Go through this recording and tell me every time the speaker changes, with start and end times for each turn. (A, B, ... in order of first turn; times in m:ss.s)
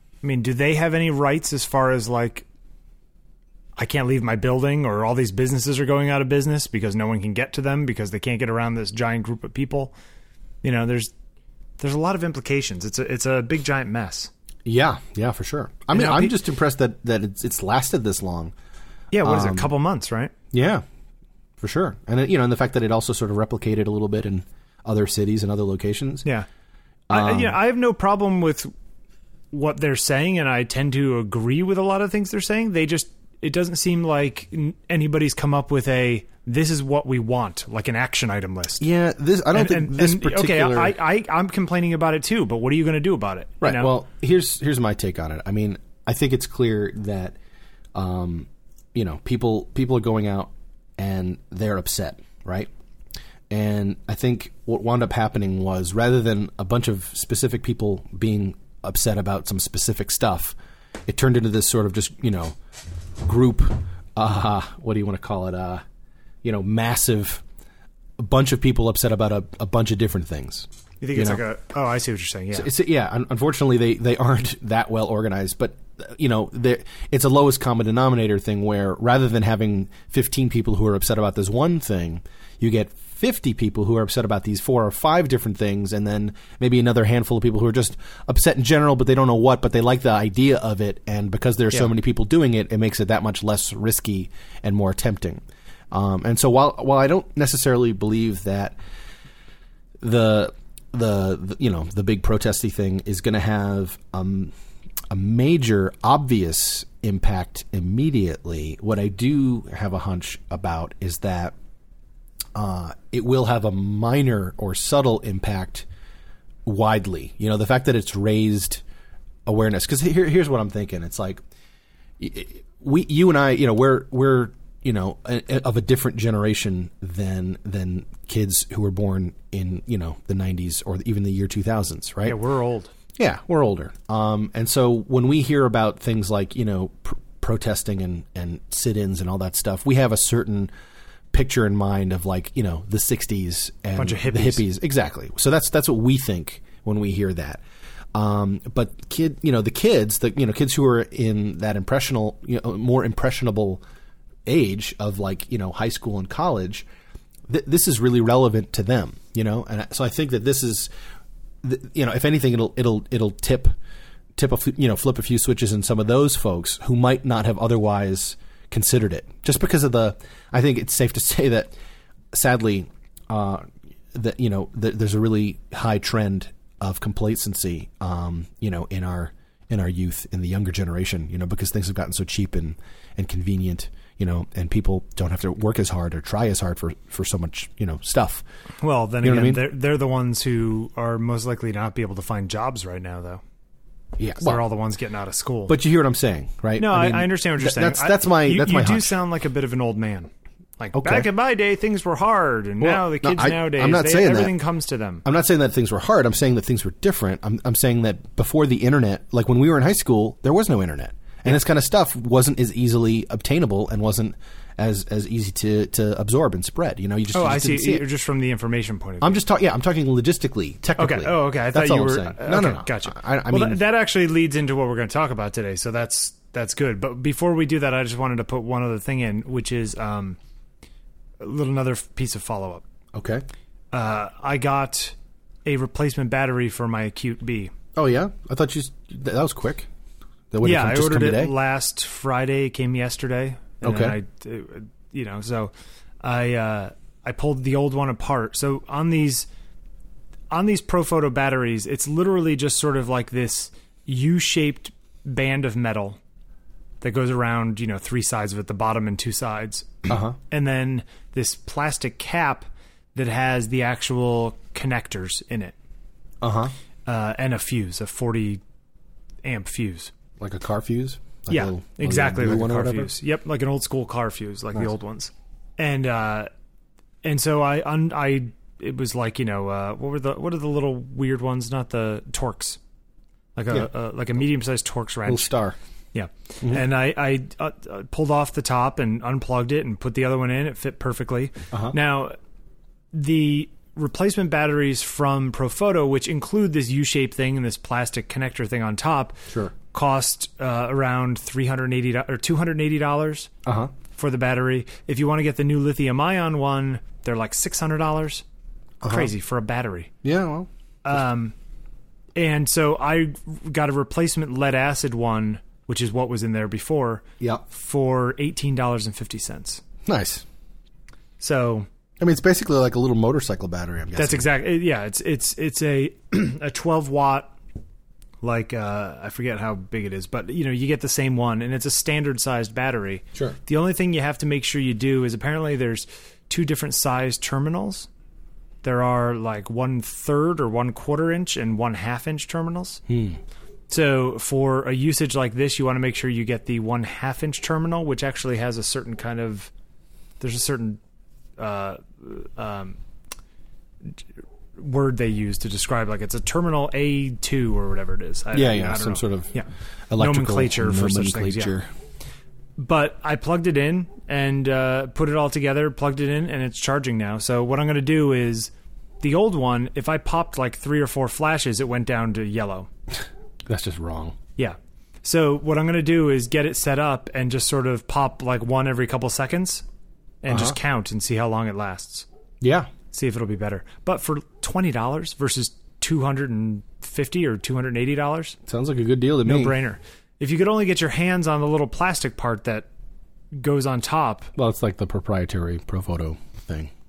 0:00.2-0:02.4 A
0:03.8-0:09.9 A
0:10.6-0:11.1 A
0:11.8-0:14.3 A
0:14.6-0:18.5 B
0:15.9-0:16.3 A
0:19.1-0:20.3 A
0:19.2-0:19.7 B
0:20.5-0:20.8 B
0:21.6-0:26.2 B
0:27.1-0:27.5 B
0:27.1-0:28.7 A
0:29.5-0:38.8 A
0:38.8-0:40.9 B
0:39.5-0:43.9 A
0:43.6-0:47.4 B
0:47.9-0:52.7 B
0:53.5-1:00.6 B
1:01.1-1:02.6 B
1:03.2-1:05.8 B
1:06.4-1:07.4 B
1:08.2-1:11.4 B
1:11.0-1:12.7 A
1:12.5-1:38.8 B
1:40.0-1:44.5 B
1:45.1-1:51.5 B
1:52.5-1:55.8 B
1:56.6-1:58.8 B
1:59.4-2:01.4 B
2:02.2-2:12.4 B
2:12.2-2:12.9 A
2:13.2-2:20.7 B
2:21.3-2:27.6 B
2:24.0-2:24.6 A
2:28.1-2:33.8 B
2:34.4-2:36.8 B
2:37.5-2:40.9 B
2:41.6-2:43.7 B
2:44.4-2:51.7 B
2:52.3-3:08.4 B
3:08.8-3:13.4 A
3:09.2-3:09.6 B
3:14.2-3:14.6 B
3:14.4-3:15.7 A
3:15.7-3:19.2 B
3:16.8-3:25.2 A
3:20.9-3:21.3 B
3:22.8-3:24.5 B
3:25.2-3:38.0 B
3:37.3-3:39.4 A
3:39.2-3:43.8 B
3:41.0-3:50.4 A
3:51.4-3:52.8 A
3:53.1-3:53.4 B
3:53.9-3:57.7 A
3:57.9-3:59.9 B
4:00.5-4:01.5 B
4:00.6-4:05.7 A
4:03.8-4:04.2 B
4:06.2-4:09.5 A
4:10.5-4:16.2 A
4:17.0-4:25.7 A
4:20.1-4:20.4 B
4:26.4-4:26.7 B
4:27.0-4:28.6 A
4:29.4-4:30.1 A
4:30.4-4:33.1 B
4:31.5-4:36.5 A
4:37.2-4:42.8 A
4:43.6-4:45.5 A
4:45.2-4:45.8 B
4:46.1-4:52.4 A
4:51.7-4:52.0 B
4:53.1-4:59.4 A
4:59.5-4:59.7 B
4:59.9-5:03.5 A
5:03.6-5:03.9 B
5:04.1-5:08.4 A
5:09.0-5:09.3 B
5:09.0-5:10.1 A
5:10.2-5:10.7 B
5:11.0-5:11.5 A
5:12.3-5:19.8 A
5:20.0-5:20.4 B
5:21.4-5:21.9 A
5:22.2-5:24.5 B
5:24.2-5:27.5 A
5:28.4-5:38.1 A
5:38.8-5:43.0 A
5:43.1-5:43.4 B
5:43.9-5:49.7 A
5:50.4-5:51.0 A
5:51.6-5:53.0 A
5:54.8-6:01.7 A
5:58.5-5:59.6 B
6:00.1-6:01.9 B
6:02.8-6:12.9 A
6:13.2-6:14.4 B
6:14.6-6:19.8 A
6:20.4-6:22.2 A
6:20.5-6:20.8 B
6:22.6-6:22.9 B
6:23.1-6:28.6 A
6:28.7-6:29.7 B
6:29.4-6:32.9 A
6:33.5-6:34.5 A
6:34.5-6:36.9 B